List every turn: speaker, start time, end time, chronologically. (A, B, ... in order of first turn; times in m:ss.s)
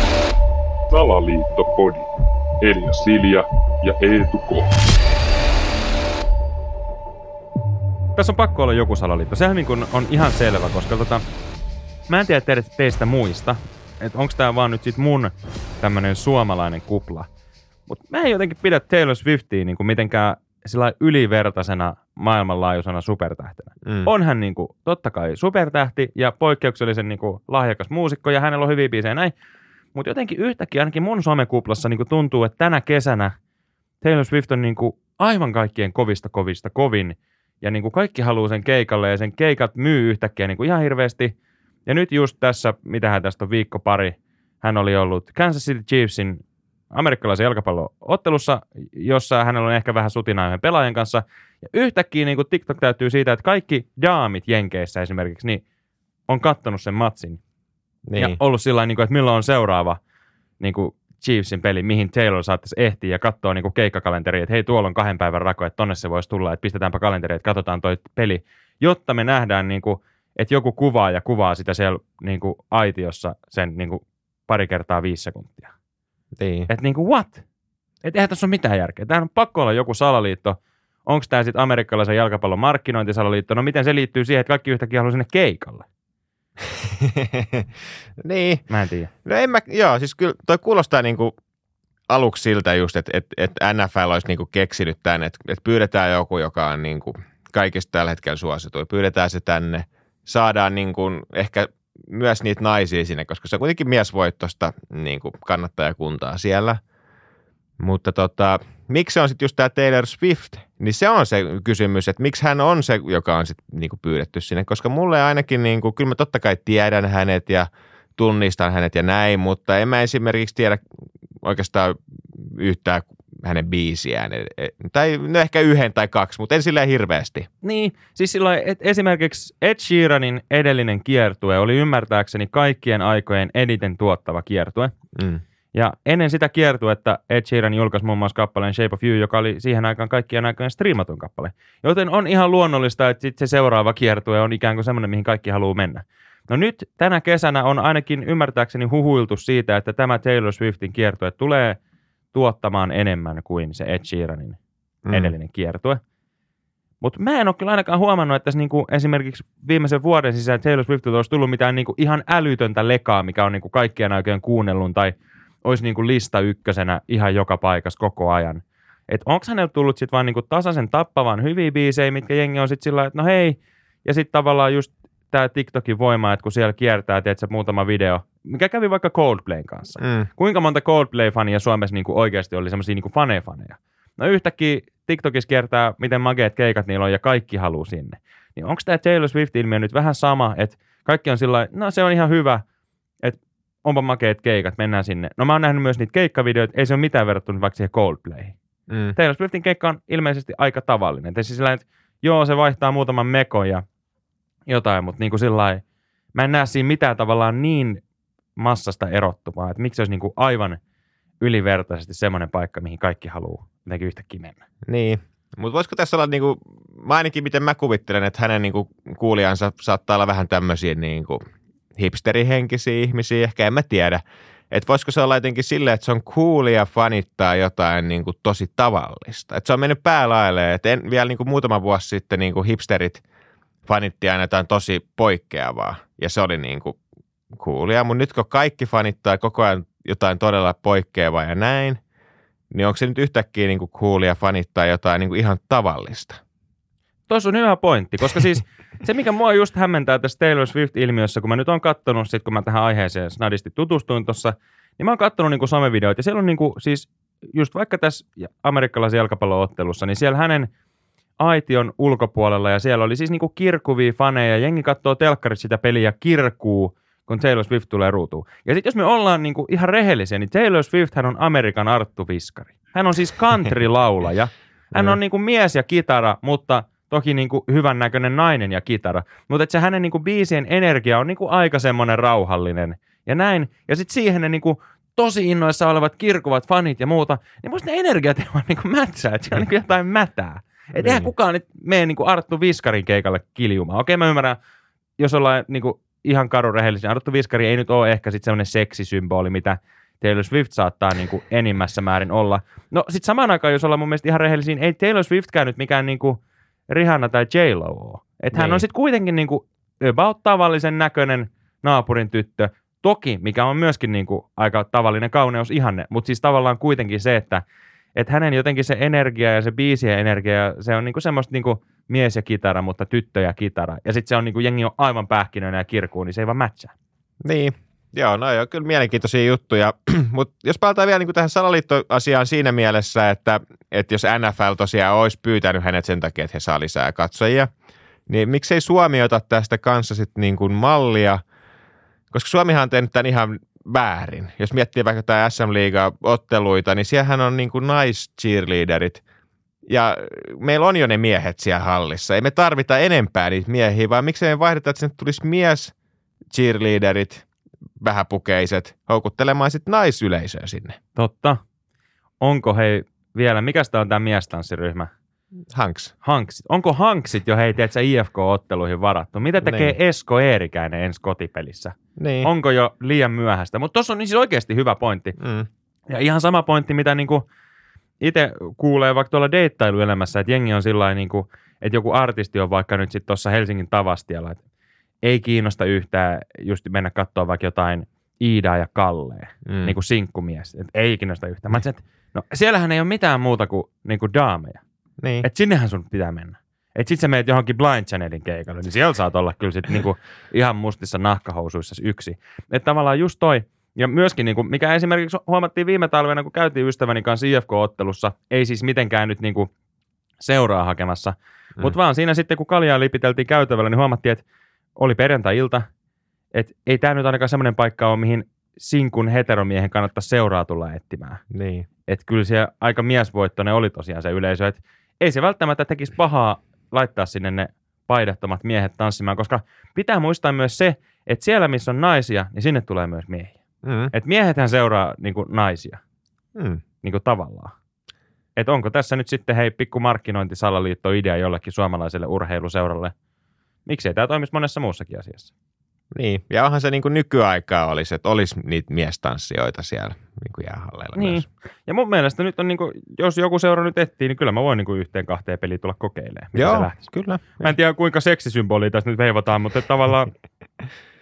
0:00.9-0:02.1 A
0:02.6-0:04.8 A
0:08.2-0:11.2 B
0:12.1-0:17.3 B
0:17.9-0:29.3 B
0:23.8-0:24.1 C
0:30.0-0:33.3 B
0:34.0-0:41.3 B
0:41.9-0:55.6 B
0:56.3-0:57.4 B
0:58.1-0:58.4 C
0:58.2-1:00.0 B
1:00.6-1:15.7 B
1:16.4-1:16.7 C
1:16.7-1:17.4 B
1:18.0-1:25.8 B
1:26.8-1:27.7 C
1:28.2-1:28.7 C
1:28.7-1:29.1 B
1:29.2-1:31.3 C
1:32.1-1:46.8 C
1:47.8-2:00.8 C
2:01.4-2:07.5 C
2:07.6-2:14.9 B
2:15.2-2:15.4 C
2:15.7-2:31.8 B
2:32.3-2:34.6 B
2:35.1-2:35.3 C
2:35.1-2:36.0 B
2:37.0-2:45.1 B
2:45.6-3:12.6 B
3:00.0-3:00.3 C
3:13.2-3:18.6 B
3:18.9-3:19.2 C
3:19.2-3:23.8 B
3:24.7-3:25.8 B
3:26.4-3:28.0 B
3:28.6-3:30.8 B
3:31.4-3:34.6 B
3:34.9-3:41.4 C
3:42.0-3:53.2 C
3:53.9-3:57.0 C
3:57.5-4:02.0 C
4:02.7-4:06.4 C
4:07.3-4:20.7 B
4:21.4-4:54.6 B
4:51.0-4:51.3 C
4:55.2-5:06.4 B
5:06.9-5:17.6 B
5:08.5-5:08.8 C
5:18.2-5:26.9 B
5:27.4-5:37.7 C
5:38.3-5:41.4 C
5:42.3-5:49.2 C
5:49.9-5:55.9 C
5:56.5-5:57.5 C
5:58.0-6:01.0 C
6:01.2-6:01.6 B
6:02.4-6:05.1 B
6:05.7-6:06.1 C
6:06.2-6:15.4 B
6:09.6-6:10.0 C
6:12.2-6:12.5 C
6:15.4-6:15.7 C
6:16.1-6:17.4 B
6:18.2-6:24.6 B
6:25.2-6:34.8 B
6:29.7-6:30.0 C
6:35.2-6:35.5 C
6:35.4-6:49.7 B
6:50.4-6:54.4 B
6:55.0-6:55.8 B
6:56.5-7:01.4 B
7:01.5-7:01.9 C
7:02.1-7:13.6 B
7:13.8-7:14.1 C
7:14.1-7:16.0 B
7:16.6-7:16.8 C
7:17.0-7:17.7 B
7:18.6-7:23.1 B
7:23.9-7:25.5 B
7:26.1-7:31.5 C
7:31.2-7:37.0 B
7:36.6-7:37.7 C
7:37.6-7:40.3 B